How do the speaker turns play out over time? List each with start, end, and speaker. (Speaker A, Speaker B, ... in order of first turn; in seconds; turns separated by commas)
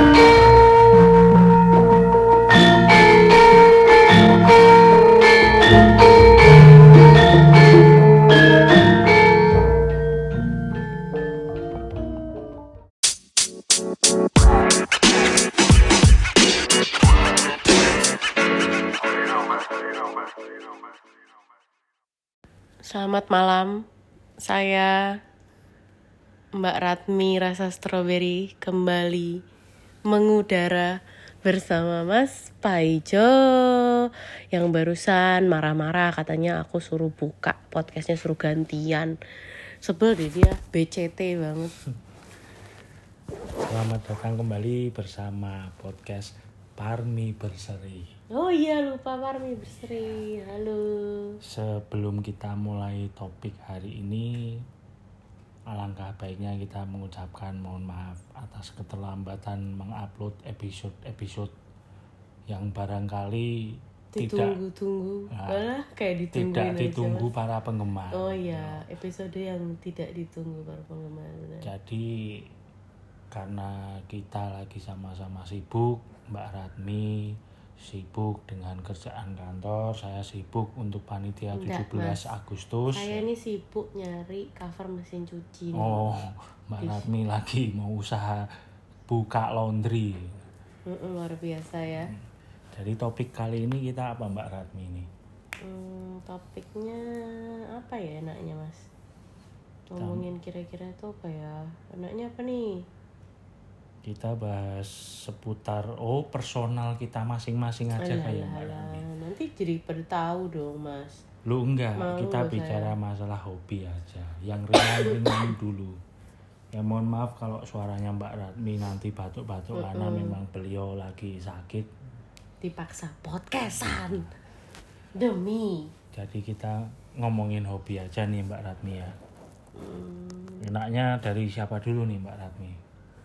Speaker A: 22.8-23.8, Speaker A: 24.4-25.2, Speaker A: 26.6-29.4, Speaker A: 30.1-39.1, Speaker A: 39.8-41.7, Speaker B: 43.7-48.1, Speaker A: 48.3-51.4, Speaker B: 51.4-54.6, Speaker B: 55.7-61.5, Speaker B: 62.5-64.6, Speaker A: 64.1-67.3, Speaker B: 65.3-65.6, Speaker B: 66.3-68.8, Speaker A: 68.1-71.7, Speaker B: 71.6-72.5, Speaker B: 73.3-83.2, Speaker A: 81.5-82.2, Speaker A: 82.9-86.2, Speaker B: 85.7-88.5, Speaker B: 89.1-90.5, Speaker A: 90.9-92.1, Speaker B: 92.0-95.1, Speaker A: 95.6-98.9, Speaker A: 99.9-102.8, Speaker B: 100.0-100.2, Speaker B: 104.0-109.0, Speaker A: 108.0-111.2, Speaker B: 111.5-116.0, Speaker A: 112.0-112.9, Speaker A: 114.8-115.2, Speaker B: 116.7-121.9, Speaker A: 119.7-120.4, Speaker A: 122.6-124.3, Speaker B: 123.7-124.2, Speaker A: 125.2-125.9, Speaker B: 126.1-129.2, Speaker A: 129.8-130.7, Speaker B: 130.6-132.8